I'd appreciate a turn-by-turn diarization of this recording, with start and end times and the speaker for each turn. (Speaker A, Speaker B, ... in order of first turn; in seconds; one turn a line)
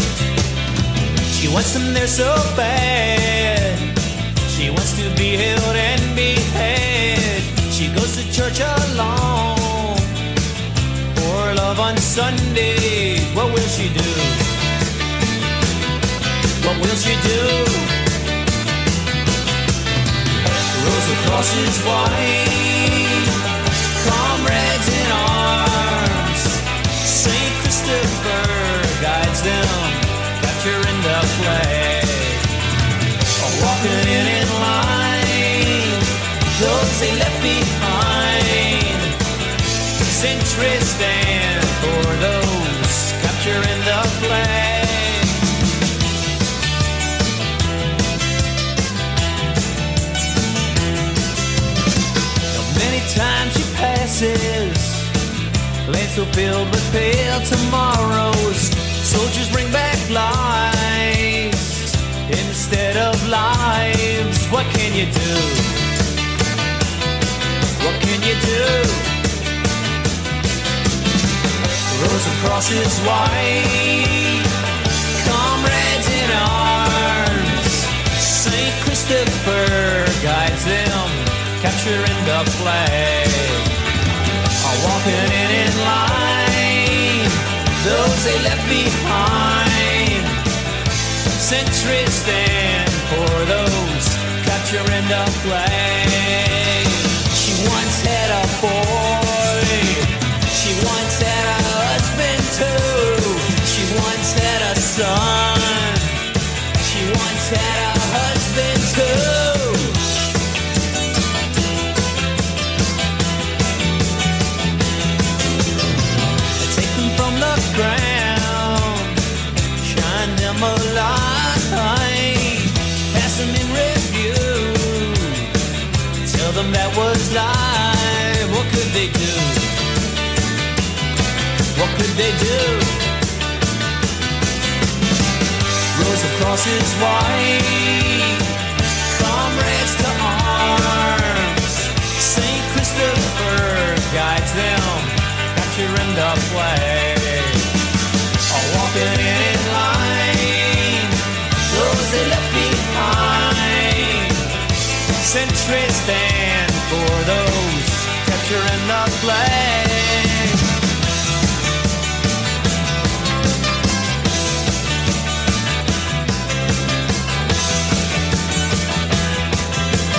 Speaker A: 1.3-10.2
Speaker A: 11.1-14.5
Speaker A: 16.6-18.0
Speaker A: 20.7-23.4
Speaker A: 23.9-32.5
Speaker A: 33.4-39.2
Speaker A: 40.0-45.5
Speaker A: 52.5-55.1
Speaker A: 55.9-65.9
Speaker A: 67.8-69.1
Speaker A: 71.9-74.5
Speaker A: 75.2-83.7
Speaker A: 84.6-90.4
Speaker A: 91.3-106.2
Speaker A: 106.8-110.0
Speaker A: 116.6-119.2
Speaker A: 119.8-125.5
Speaker A: 126.2-129.8
Speaker A: 131.7-133.1
Speaker A: 135.9-138.6
Speaker A: 139.1-147.7
Speaker A: 148.5-154.5
Speaker A: 155.2-160.6